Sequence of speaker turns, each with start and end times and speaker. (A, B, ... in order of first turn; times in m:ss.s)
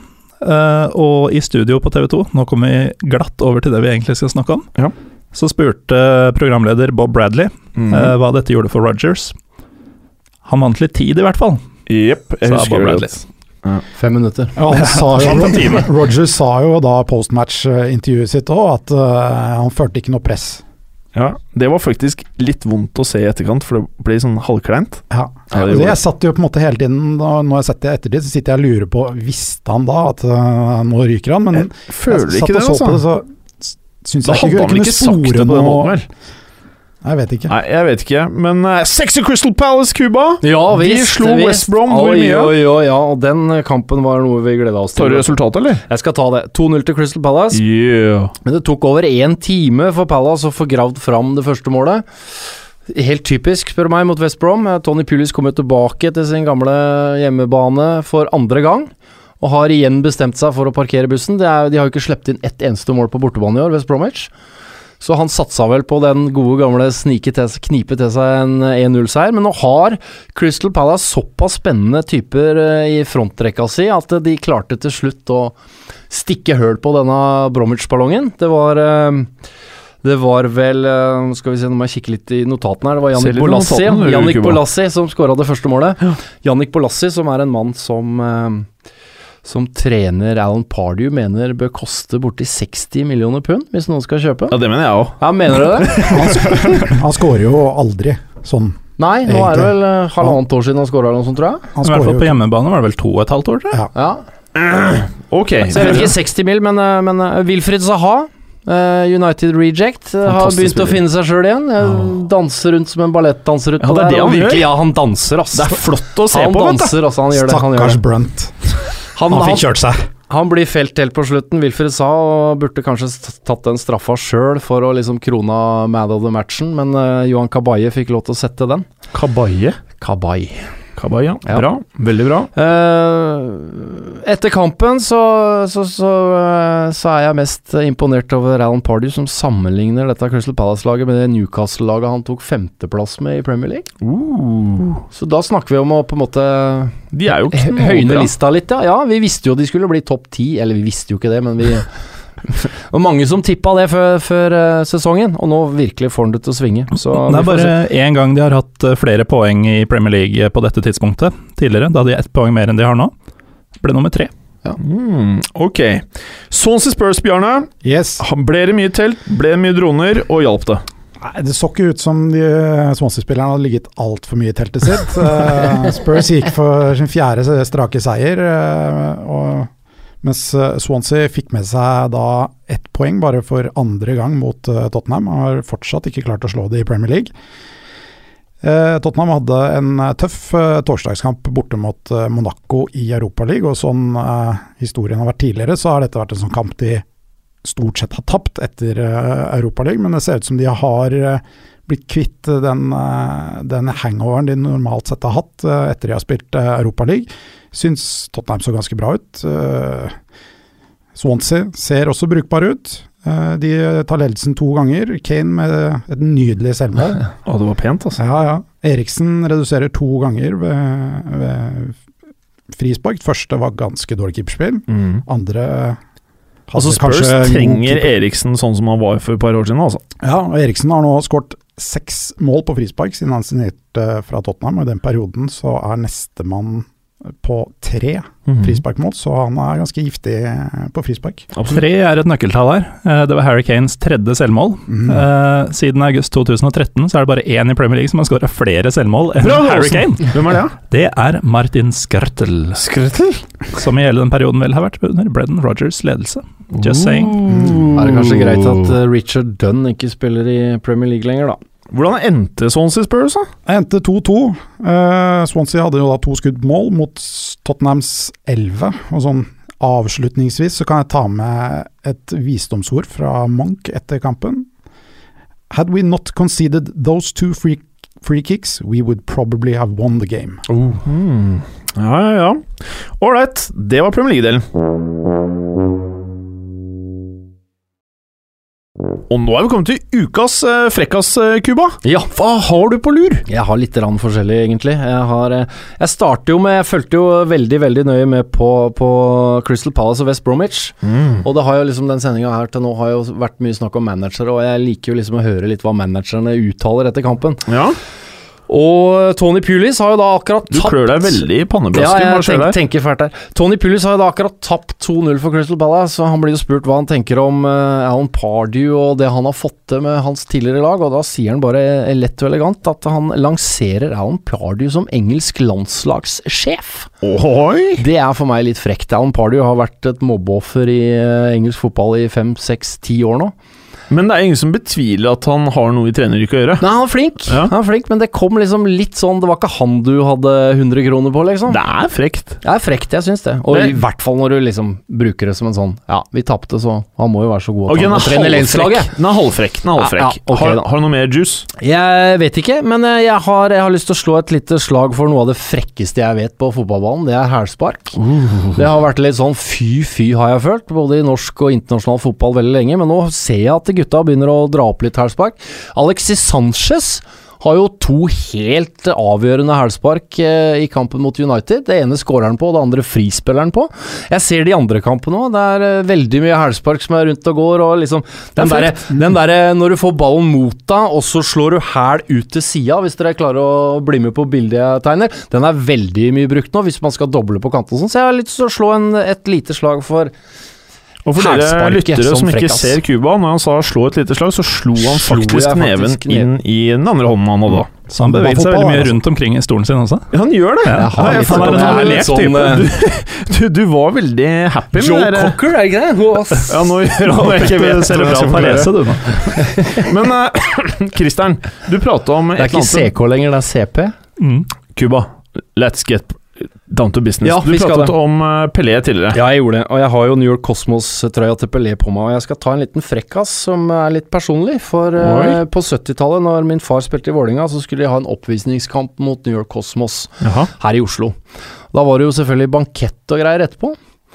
0:00.4-0:04.7 A
0:05.3-0:09.3 A
0:07.8-0:08.1 B
0:10.4-0:11.6 A
0:11.9-0:13.8 B
0:12.4-0:13.2 A
0:13.9-0:14.6 C
0:14.6-0:20.6 D
0:14.7-0:15.9 A
0:21.1-0:26.0 B
0:25.1-0:36.0 D
0:31.6-0:33.0 B
0:34.2-0:36.0 B
0:37.0-0:37.5 D
0:37.5-0:42.6 B
0:40.4-0:45.3 C
0:45.0-0:45.8 B
0:45.9-0:47.6 C
0:47.5-0:48.3 B
0:48.4-0:52.0 C
0:52.9-1:04.3 C
1:05.0-1:15.5 C
1:16.1-1:19.3 C
1:20.0-1:28.7 C
1:23.2-1:24.6 B
1:29.4-1:34.6 C
1:34.5-1:36.9 B
1:35.2-1:36.5 C
1:36.1-1:40.4 D
1:39.0-1:41.7 C
1:41.7-1:42.4 D
1:41.8-1:43.8 A
1:43.9-1:44.2 C
1:44.5-1:46.1 B
1:45.7-1:58.0 C
1:50.2-1:51.0 B
1:53.8-1:54.7 B
1:55.5-1:57.0 B
1:57.3-2:00.1 D
1:59.1-1:59.7 C
2:00.3-2:08.8 C
2:09.1-2:09.8 B
2:10.0-2:10.7 C
2:11.0-2:12.5 B
2:12.5-2:23.9 C
2:24.0-2:25.0 B
2:25.1-2:31.9 C
2:27.1-2:28.3 B
2:32.5-2:37.7 C
2:37.1-2:43.1 A
2:43.8-2:44.3 A
2:44.8-2:50.8 B
2:47.8-2:48.2 D
2:51.2-2:59.7 D
3:00.2-3:07.3 D
3:08.6-3:17.0 D
3:17.6-3:30.1 D
3:31.1-3:37.3 D
3:37.4-3:38.2 B
3:38.2-3:42.0 D
3:42.7-3:46.0 D
3:44.9-3:45.2 B
3:46.7-3:48.1 D
3:46.8-3:50.0 B
3:50.2-3:56.9 D
3:57.4-4:01.5 D
3:58.5-3:58.8 B
4:01.6-4:01.8 B
4:01.6-4:12.8 A
4:04.9-4:05.2 D
4:09.4-4:10.7 B
4:12.8-4:13.4 B
4:13.7-4:17.4 A
4:16.8-4:18.8 B
4:17.5-4:17.9 D
4:17.9-4:21.6 C
4:21.9-4:23.5 B
4:23.6-4:34.7 D
4:35.7-4:40.7 D
4:41.0-4:44.6 B
4:49.3-4:53.4 B
4:52.0-4:52.4 C
4:53.4-5:07.6 C
5:01.0-5:01.4 B
5:07.6-5:08.0 B
5:08.7-5:27.1 C
5:10.7-5:12.8 B
5:27.2-5:28.0 B
5:28.0-5:33.5 C
5:34.1-5:36.8 B
5:36.8-5:41.8 C
5:37.5-5:37.7 B
5:41.7-5:42.6 B
5:42.6-5:49.1 C
5:43.7-5:44.0 B
5:47.9-5:51.7 B
5:50.0-5:50.8 C
5:51.8-5:58.2 C
5:58.2-5:58.8 B
5:58.7-6:30.3 C
6:31.2-6:37.9 B
6:31.3-6:33.0 C
6:35.0-6:36.5 C
6:38.1-6:39.2 D
6:38.1-6:42.8 A
6:40.3-6:45.6 B
6:40.9-6:42.9 C
6:44.9-6:47.0 C
6:46.7-6:53.1 B
6:47.1-6:49.6 A
6:49.4-6:50.1 C
6:52.6-6:54.1 C
6:54.4-6:54.7 A
6:54.9-6:59.4 B
6:57.4-6:58.1 C
6:59.3-7:11.4 C
7:05.2-7:05.6 B
7:10.4-7:10.7 B
7:11.9-7:14.0 C